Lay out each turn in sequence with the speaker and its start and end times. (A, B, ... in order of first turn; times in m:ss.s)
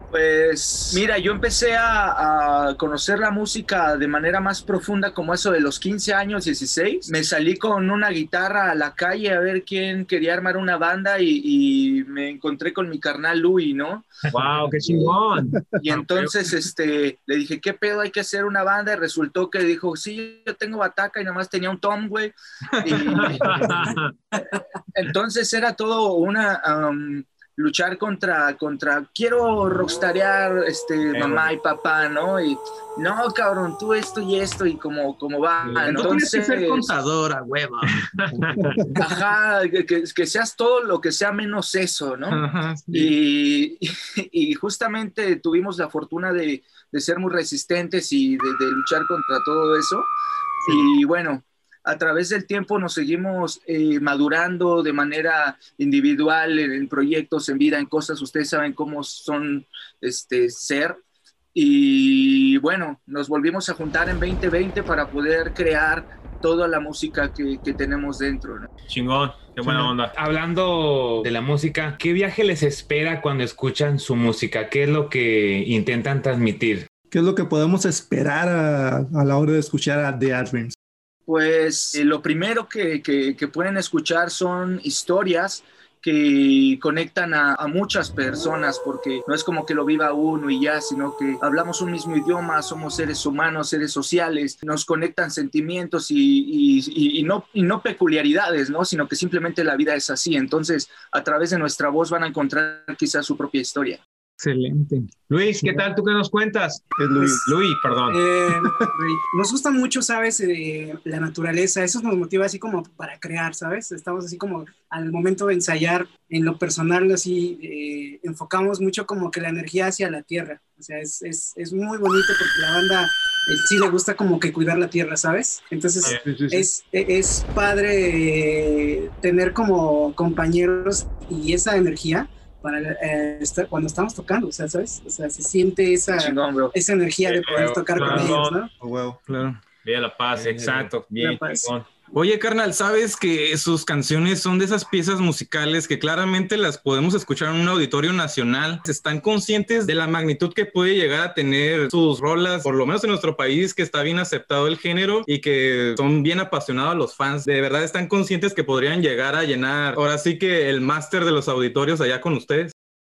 0:00.1-0:14.1 A
0:14.3-0:15.6 B
0:14.9-0:15.1 A
0:15.8-0:24.4 A
0:15.9-0:16.2 C
0:23.0-0:24.1 B
0:24.9-0:36.9 A
0:31.1-0:31.5 B
0:35.6-0:38.0 D
0:38.0-0:38.8 B
0:39.0-0:50.1 A
0:42.3-0:43.2 D
0:50.6-1:01.0 A
1:01.5-1:08.7 A
1:08.9-1:10.1 B
1:09.6-1:09.9 D
1:10.1-1:16.9 C
1:17.1-1:20.8 E
1:21.3-1:44.0 A
1:44.4-1:45.1 D
1:45.3-1:46.9 B
1:47.0-1:47.5 E
1:47.4-1:48.2 B
1:48.1-2:18.7 F
1:48.6-1:48.9 E
2:06.2-2:06.7 E
2:16.1-2:16.8 A
2:17.4-2:18.6 B
2:18.0-2:18.4 D
2:18.8-2:19.2 E
2:19.3-2:19.6 D
2:19.8-2:21.9 B
2:21.2-2:21.7 F
2:22.1-2:42.7 D